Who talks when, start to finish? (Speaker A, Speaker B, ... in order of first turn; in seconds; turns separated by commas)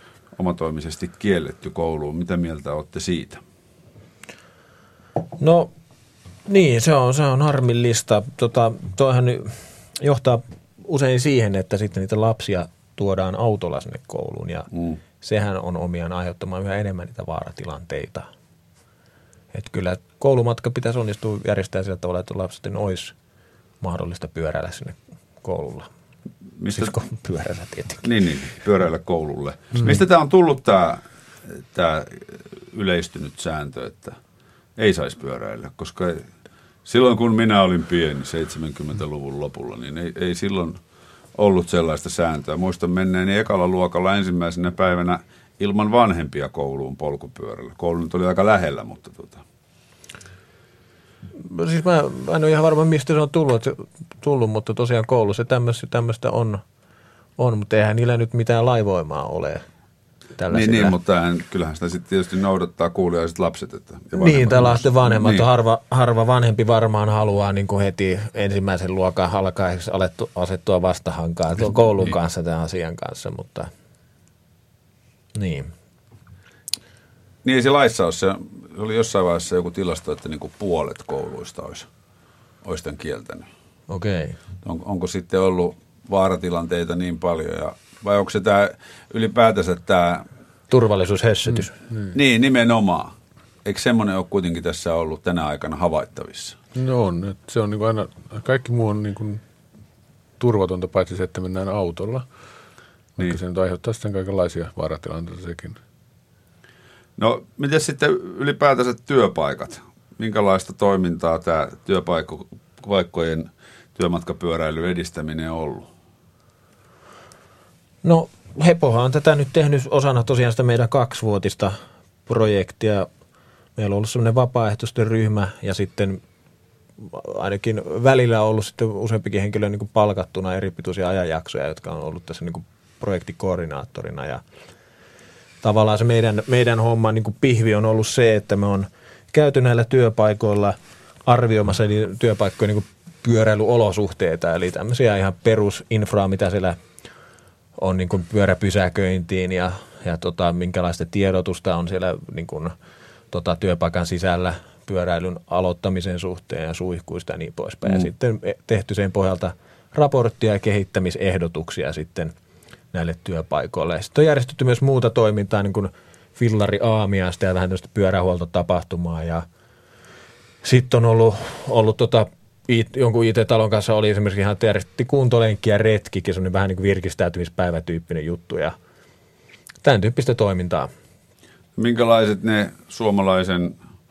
Speaker A: 0.4-3.4, Speaker B: 5.4-5.7, Speaker B: 6.5-14.7, Speaker A: 14.7-15.0, Speaker B: 15.2-18.3, Speaker B: 19.5-23.1, Speaker B: 23.8-25.9, Speaker A: 26.6-26.9, Speaker B: 26.7-28.0, Speaker A: 28.0-31.0, Speaker A: 31.6-34.2, Speaker A: 34.8-36.3, Speaker A: 36.9-40.8, Speaker A: 41.4-49.4, Speaker B: 51.4-56.6, Speaker B: 57.4-59.6, Speaker B: 60.4-61.0, Speaker A: 60.5-65.5, Speaker B: 64.1-73.7, Speaker B: 75.3-75.7, Speaker A: 77.4-81.9, Speaker A: 82.6-83.5, Speaker B: 83.9-84.4, Speaker A: 84.6-90.2, Speaker B: 90.7-91.7, Speaker A: 92.1-93.1, Speaker A: 93.7-96.6, Speaker C: 96.8-99.4, Speaker C: 100.4-102.3, Speaker C: 103.2-105.8, Speaker A: 107.2-115.9, Speaker B: 118.0-123.1, Speaker B: 123.8-126.2, Speaker B: 127.0-134.4, Speaker B: 135.6-146.8, Speaker B: 147.8-152.7, Speaker B: 153.3-162.3, Speaker B: 162.9-169.5, Speaker B: 170.6-178.8, Speaker B: 179.8-180.9, Speaker A: 181.8-183.8